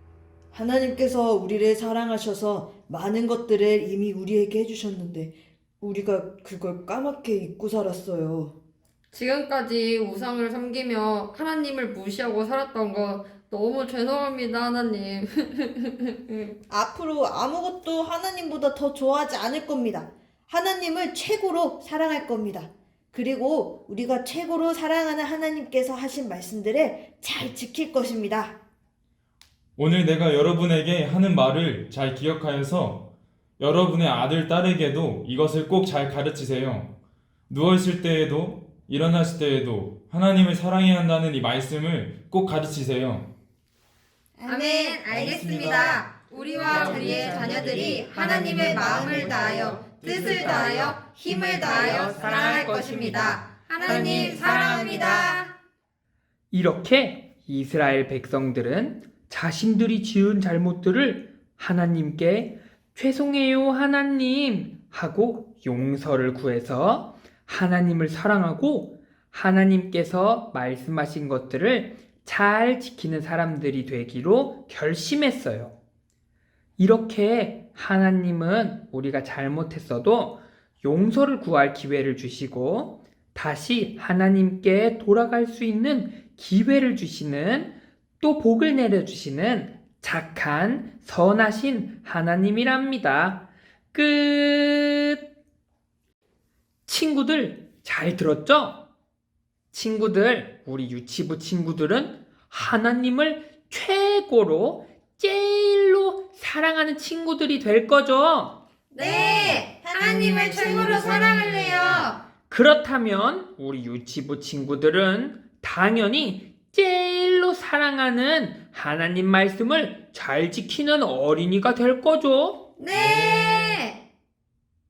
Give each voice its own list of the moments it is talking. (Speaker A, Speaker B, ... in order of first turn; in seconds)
Speaker A: 0.5-8.6, 16.7-28.6, 44.4-46.0, 46.7-50.9, 51.7-52.2, 53.9-54.7, 109.0-112.1
Speaker B: 9.1-16.6, 46.4-50.5
Speaker C: 29.8-36.9, 37.5-43.3
Speaker D: 44.5-55.5, 108.9-112.2, 122.8-124.0
Speaker E: 46.7-47.4, 48.3-49.2, 50.1-50.9, 51.5-55.0, 56.5-75.7, 76.8-93.4, 93.9-95.2, 96.8-98.8, 99.7-108.5, 112.5-122.6